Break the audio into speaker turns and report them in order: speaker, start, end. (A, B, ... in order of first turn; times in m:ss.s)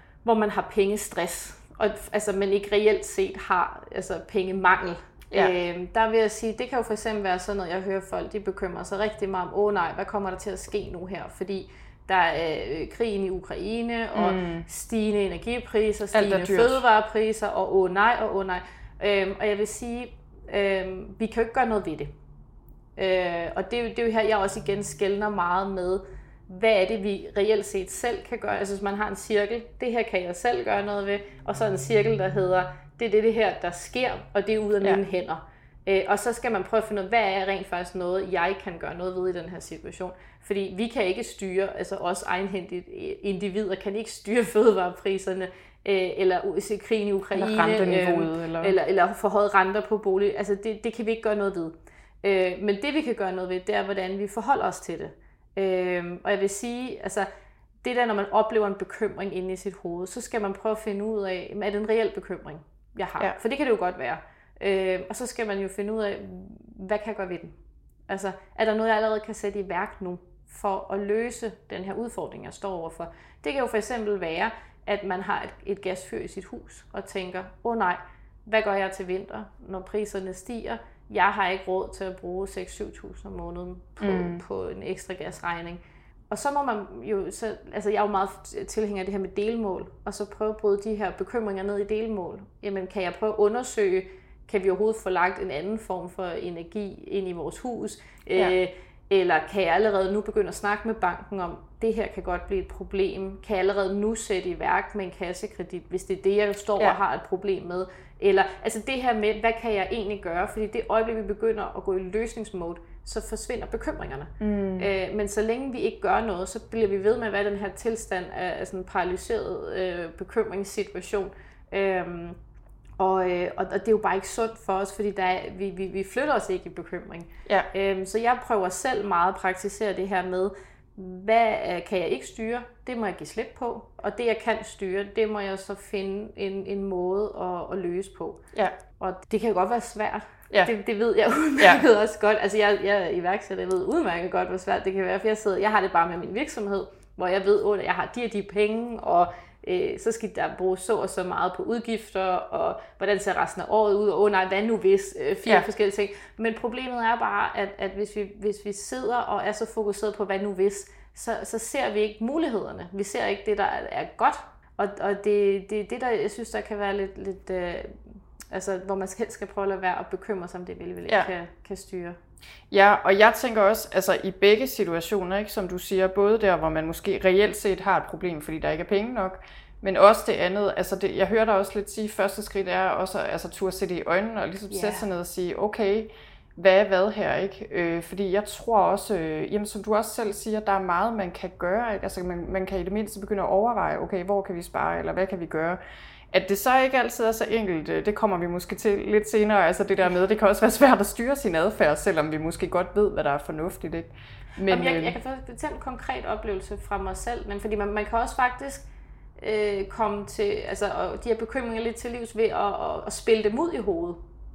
0:00.2-0:22.1 A
0:14.1-0:14.6 B
0:16.1-0:16.8 B
0:23.0-0:57.3 A
0:47.3-0:48.7 B
0:57.8-1:07.6 A
1:08.1-2:02.4 A
1:24.0-1:24.4 B
1:54.4-1:54.9 B
2:03.0-2:18.4 A
2:19.0-2:52.2 A
2:21.6-2:21.8 B
2:52.7-3:15.8 B
3:04.7-3:05.0 A
3:16.3-3:25.1 B
3:24.7-3:28.9 A
3:29.4-3:34.2 A